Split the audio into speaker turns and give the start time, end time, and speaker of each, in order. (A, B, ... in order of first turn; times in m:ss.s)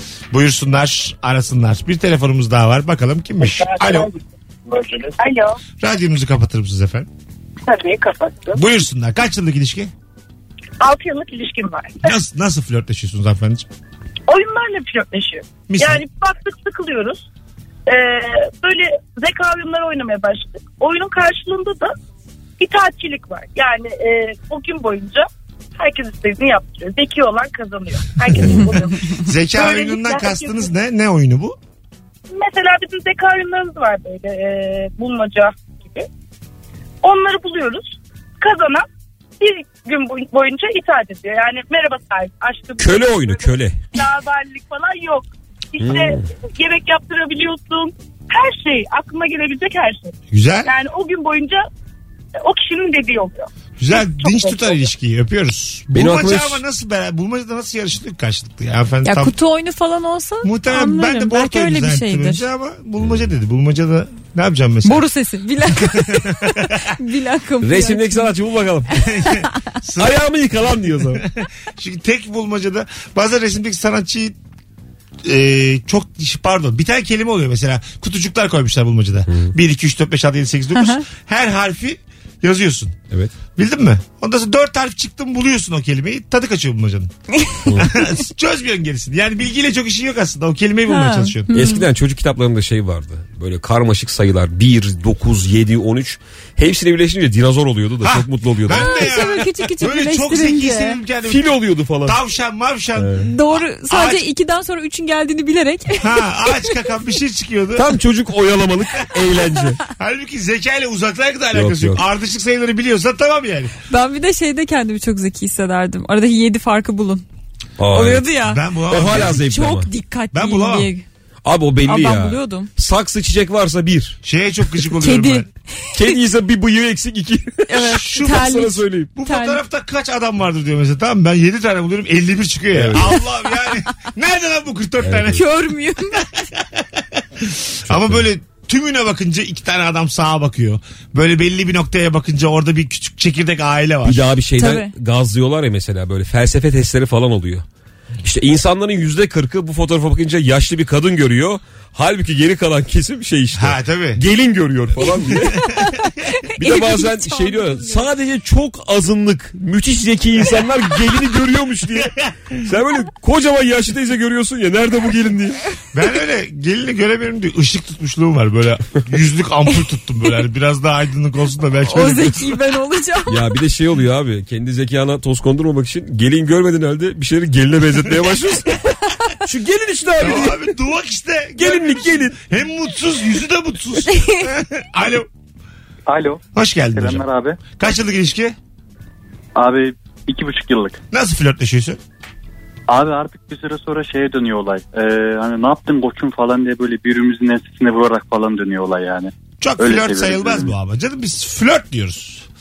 0:00.3-0:04.1 A
0:03.6-0:04.1 B
0:04.7-0:05.6 B
0:05.8-0:07.1 A
0:07.6-0:08.6 B
0:08.5-0:09.9 A
0:10.8-0:12.1 B
0:12.0-0:13.7 A
0:14.3-0:17.3 B
0:15.7-0:16.0 A
0:17.9-0:21.9 B
0:22.6-0:30.7 B
0:28.4-0:28.7 C
0:29.2-0:31.6 A
0:32.3-0:36.1 B
0:37.0-0:38.9 B
0:39.4-0:51.6 B
0:42.8-0:43.8 C
0:45.8-0:46.2 C
0:50.3-0:50.7 A
0:52.4-0:54.8 B
0:53.8-0:59.4 A
0:55.9-0:56.6 C
0:59.0-1:02.5 D
1:00.4-1:05.0 A
1:04.8-1:08.3 D
1:06.0-1:06.7 A
1:07.6-1:09.1 C
1:09.0-1:10.2 A
1:10.0-1:11.2 C
1:11.2-1:14.4 A
1:15.2-1:23.0 A
1:20.8-1:21.0 D
1:23.6-1:27.1 A
1:27.7-1:27.9 C
1:27.8-1:31.5 A
1:30.9-1:31.9 D
1:31.5-1:39.1 C
1:38.0-1:41.5 A
1:38.7-1:41.0 D
1:41.2-1:42.2 C
1:42.0-1:43.2 A
1:43.0-1:43.3 C
1:43.2-1:46.8 D
1:43.9-1:44.2 A
1:46.0-1:47.9 A
1:47.8-1:49.8 C
1:50.0-1:53.7 A
1:51.5-1:52.0 C
1:53.9-1:57.2 D
1:57.8-1:58.3 C
1:57.9-2:01.0 D
1:58.4-1:59.4 A
1:58.9-1:59.9 C
2:00.3-2:00.9 A
2:01.4-2:04.2 C
2:01.8-2:02.7 D
2:04.2-2:05.5 A
2:05.0-2:06.2 D
2:06.0-2:09.1 C
2:07.7-2:09.6 D
2:07.8-2:08.5 A
2:09.2-2:15.4 A
2:12.7-2:13.2 C
2:15.0-2:15.4 C
2:15.3-2:16.5 D
2:16.8-2:24.2 A
2:17.9-2:18.2 C
2:24.0-2:27.6 C
2:24.6-2:24.9 D
2:28.2-2:35.8 C
2:33.5-2:34.2 A
2:35.0-2:38.1 D
2:36.6-2:45.6 C
2:42.0-2:42.6 A
2:45.9-2:52.6 A
2:51.9-2:53.5 D
2:53.3-2:58.8 C
2:59.4-3:00.7 C
3:00.2-3:05.3 A
3:01.6-3:02.4 C
3:04.1-3:04.5 D
3:06.1-3:06.4 E
3:06.5-3:07.2 A
3:07.0-3:07.6 E
3:07.8-3:08.6 A
3:09.6-3:11.0 E
3:11.1-3:12.0 A
3:12.9-3:20.8 E
3:19.6-3:22.5 A